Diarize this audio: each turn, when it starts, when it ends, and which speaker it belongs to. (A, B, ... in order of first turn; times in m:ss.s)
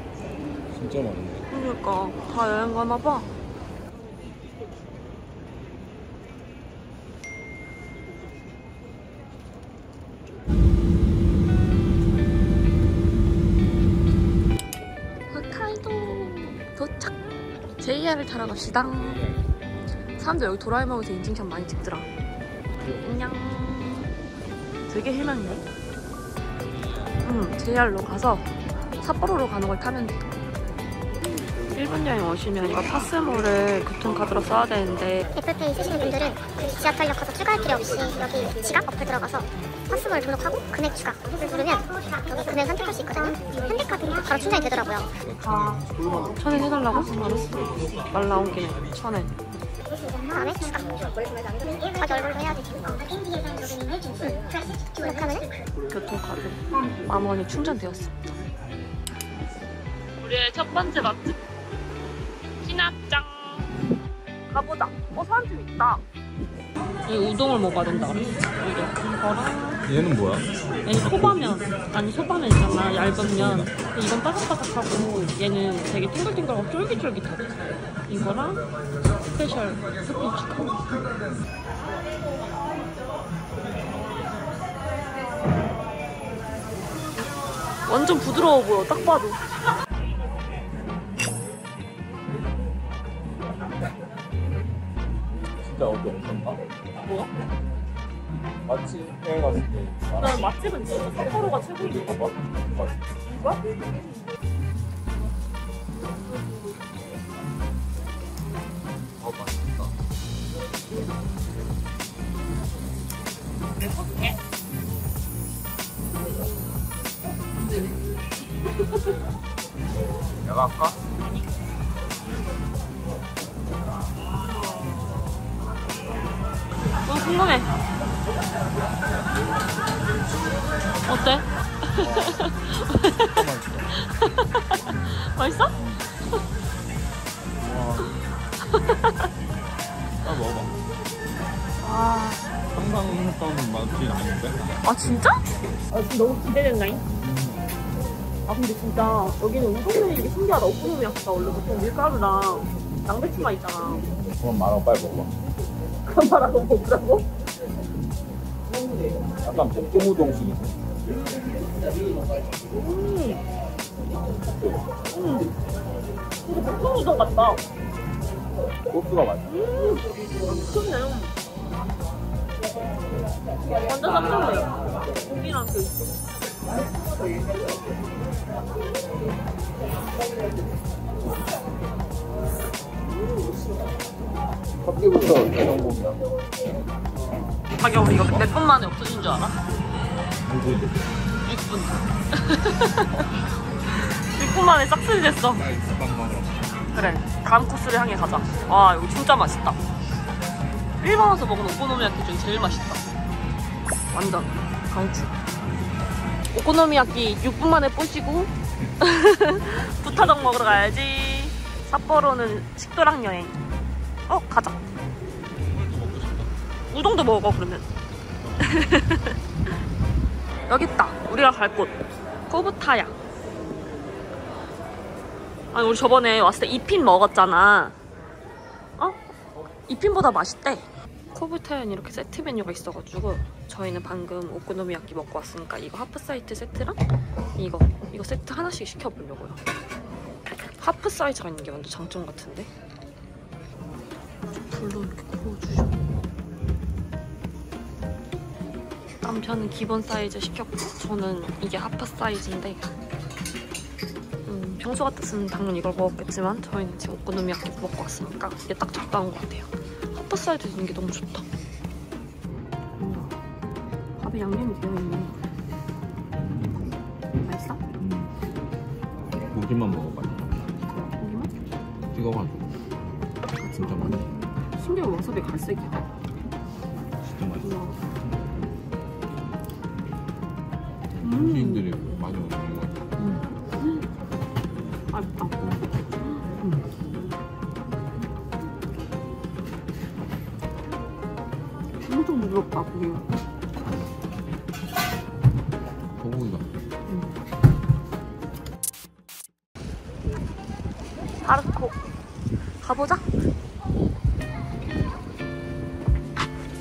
0:00.7-0:01.5 A
0:01.5-0:03.3 B
0:15.3-0:17.2 B
0:17.8-0:19.3 B
0:18.5-0:19.6 A
0:20.2-0:22.1 B
0:23.0-0:24.2 B
0:24.9-0:25.7 B
0:27.2-0:30.3 B
0:31.7-0:35.3 B
0:35.4-0:45.1 C
0:45.2-0:46.3 A
0:46.3-0:49.3 B
0:50.2-0:51.1 C
0:51.8-0:55.5 C
0:55.9-0:58.4 B
1:00.2-1:01.4 B
1:02.6-1:03.7 B
1:04.5-1:06.0 B
1:07.1-1:09.8 B
1:09.9-1:11.5 A
1:10.8-1:18.6 B
1:13.2-1:13.7 A
1:19.2-1:20.8 B
1:27.9-1:29.4 B
1:35.6-1:36.6 A
1:38.7-1:40.5 A
1:40.2-1:42.2 B
1:41.9-1:43.0 A
1:43.2-1:43.6 B
1:49.2-1:49.9 A
1:54.0-1:54.3 B
2:00.4-2:01.0 A
2:07.0-2:07.7 B
2:11.1-2:13.4 B
2:12.0-2:12.3 A
2:13.2-2:14.0 A
2:14.0-2:15.7 B
2:15.8-2:16.1 A
2:17.6-2:18.1 A
2:18.7-2:19.3 B
2:20.2-2:20.8 A
2:21.8-2:22.4 B
2:22.7-2:24.6 A
2:24.8-2:27.0 B
2:27.2-2:27.6 A
2:28.5-2:34.0 B
2:34.4-2:35.3 A
2:36.1-2:37.2 B
2:39.5-2:40.7 A
2:42.8-2:43.4 B
2:45.1-2:45.5 B
2:46.5-2:47.6 B
2:48.9-2:49.4 A
2:49.4-2:51.3 B
2:53.8-2:56.2 B
3:04.8-3:06.2 A
3:07.8-3:09.6 B
3:10.5-3:10.9 A
3:11.4-3:13.3 B
3:14.1-3:15.6 B
3:15.6-3:16.8 A
3:16.9-3:19.8 B
3:21.0-3:23.0 B
3:24.1-3:25.4 B
3:26.5-3:33.6 B
3:30.0-3:30.8 A
3:34.3-3:34.8 B
3:35.6-3:36.5 A
3:36.9-3:37.9 B
3:38.4-3:38.8 A
3:38.6-3:39.4 B
3:40.7-3:42.0 B
3:42.5-3:43.2 B
3:45.7-3:48.0 B
3:49.9-3:57.0 B
3:57.6-3:59.6 B
4:00.8-4:02.7 B
4:04.6-4:06.1 B
4:09.2-4:12.9 B
4:14.5-4:21.5 B
4:23.0-4:23.4 B
4:24.2-4:25.4 B
4:26.4-4:27.0 A
4:27.4-4:27.8 B
4:28.0-4:28.3 A
4:29.4-4:30.7 A
4:31.0-4:31.5 B
4:32.1-4:32.7 A
4:33.6-4:34.2 B
4:33.8-4:34.3 A
4:34.8-4:36.0 B
4:37.2-4:37.8 A
4:37.6-4:38.0 B
4:41.1-4:43.0 A
4:41.2-4:41.9 B
4:43.2-4:44.1 B
4:45.1-4:45.6 B
4:45.6-4:46.0 A
4:46.2-4:47.3 B
4:52.1-4:53.3 B
4:53.8-4:54.2 A
4:56.2-4:56.7 A
4:57.1-4:57.4 B
5:01.4-5:02.0 B
5:02.8-5:03.3 B